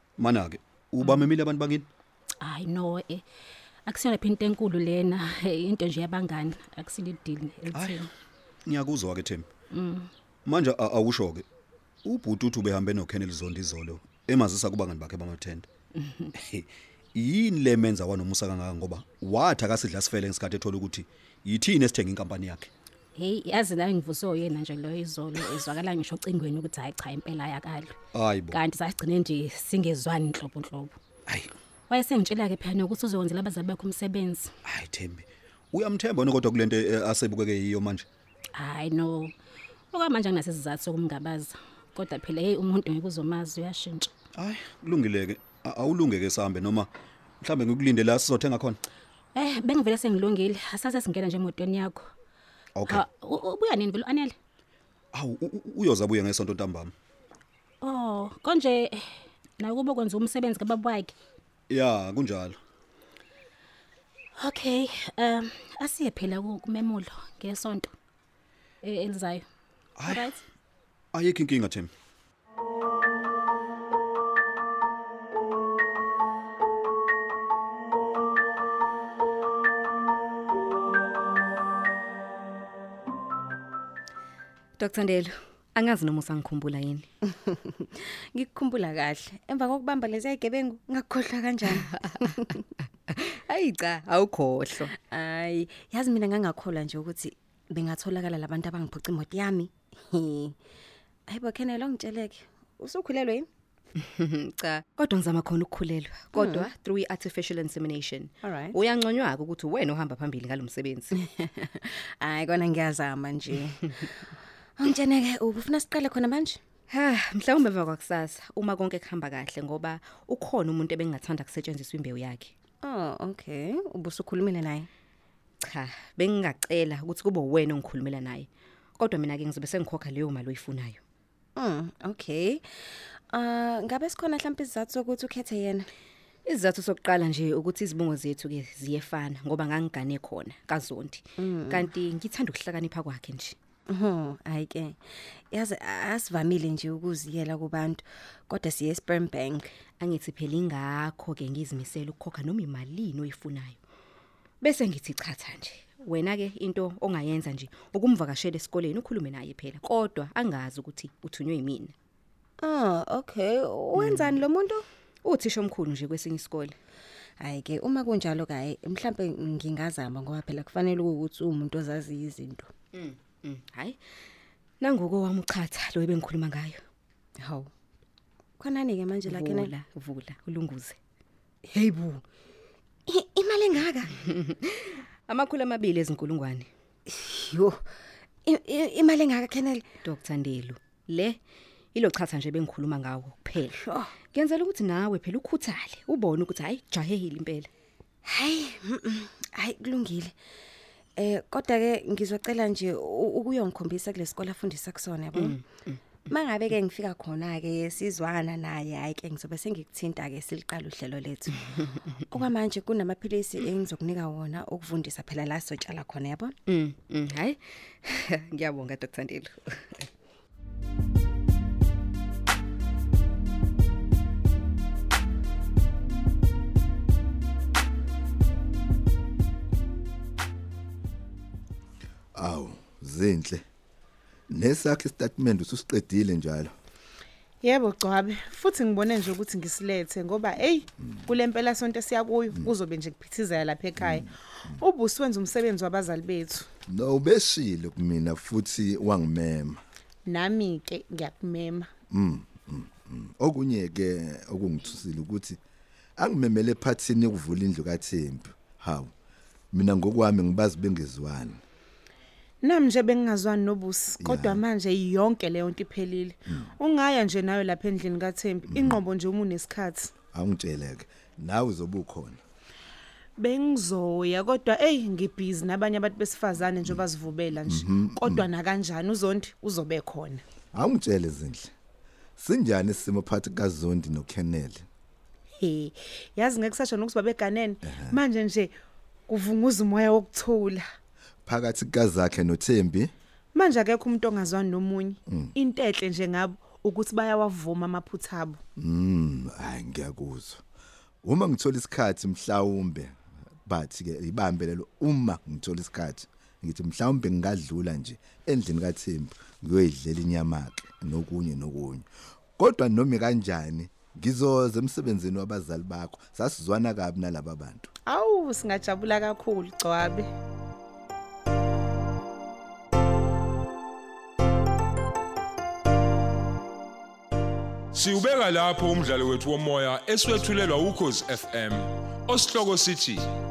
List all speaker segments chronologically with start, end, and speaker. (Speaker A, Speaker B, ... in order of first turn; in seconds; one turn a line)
Speaker A: 0.2-1.9
Speaker B: 2.4-3.2
Speaker B: 3.9-8.1
Speaker A: 7.7-8.1
Speaker A: 8.7-9.5
Speaker B: 9.7-10.1
Speaker A: 10.4-11.4
Speaker A: 12.0-15.7
Speaker B: 16.0-16.3
Speaker A: 16.3-22.7
Speaker B: 23.1-27.9
Speaker A: 28.1-28.6
Speaker B: 28.5-31.0
Speaker B: 31.9-34.5
Speaker A: 34.6-38.0
Speaker B: 38.5-39.3
Speaker B: 39.9-44.1
Speaker A: 44.3-48.8
Speaker B: 49.3-52.1
Speaker A: 52.7-53.0
Speaker B: 52.9-54.3
Speaker A: 55.1-56.9
Speaker B: 57.8-61.1
Speaker A: 61.7-62.6
Speaker B: 64.3-67.9
Speaker B: 68.8-69.4
Speaker A: 70.0-70.3
Speaker B: 70.0-70.4
Speaker A: 71.1-71.9
Speaker C: 84.8-87.1
Speaker D: 87.5-91.5
Speaker C: 91.7-92.4
Speaker C: 93.1-94.9
Speaker D: 95.0-100.5
Speaker D: 101.3-103.5
Speaker C: 104.0-111.1
Speaker D: 111.5-113.8
Speaker D: 114.8-116.6
Speaker C: 116.9-122.5
Speaker D: 122.8-124.9
Speaker C: 125.6-131.0
Speaker D: 131.6-132.6
Speaker D: 133.3-135.8
Speaker C: 136.4-143.6
Speaker D: 143.9-144.9
Speaker D: 145.5-149.7
Speaker C: 150.0-153.8
Speaker C: 154.6-161.9
Speaker D: 162.6-164.8
Speaker C: 163.9-164.4
Speaker C: 165.2-166.8
Speaker D: 167.4-172.7
Speaker C: 172.9-174.0
Speaker C: 174.8-176.8
Speaker D: 177.4-177.7
Speaker D: 178.6-179.7
Speaker C: 179.2-181.0
Speaker D: 181.8-182.2
Speaker D: 183.1-184.0
Speaker C: 184.2-186.7
Speaker D: 187.1-187.8
Speaker D: 188.5-189.8
Speaker C: 190.0-191.4
Speaker C: 191.9-197.7
Speaker D: 193.8-194.1
Speaker D: 198.2-200.3
Speaker D: 201.2-205.6
Speaker C: 205.3-206.0
Speaker D: 206.3-211.9
Speaker D: 212.5-216.5
Speaker C: 216.7-220.1
Speaker E: 232.3-233.6
Speaker E: 234.5-236.7
Speaker F: 237.6-244.2
Speaker E: 244.0-244.3
Speaker F: 244.8-246.7
Speaker E: 246.9-249.8
Speaker F: 250.2-251.9
Speaker E: 252.1-255.6
Speaker E: 256.2-259.1
Speaker E: 259.7-261.6
Speaker F: 262.6-270.1
Speaker E: 264.2-264.6
Speaker E: 268.7-269.0
Speaker E: 270.3-272.4
Speaker F: 273.4-280.4
Speaker E: 277.6-278.4
Speaker E: 280.7-281.7
Speaker E: 282.4-284.9
Speaker F: 285.6-288.7
Speaker E: 287.8-288.2
Speaker F: 289.3-290.8
Speaker E: 291.4-293.1
Speaker F: 293.5-298.6
Speaker E: 298.8-300.6
Speaker E: 301.2-317.9
Speaker F: 318.1-320.3
Speaker G: 327.9-333.2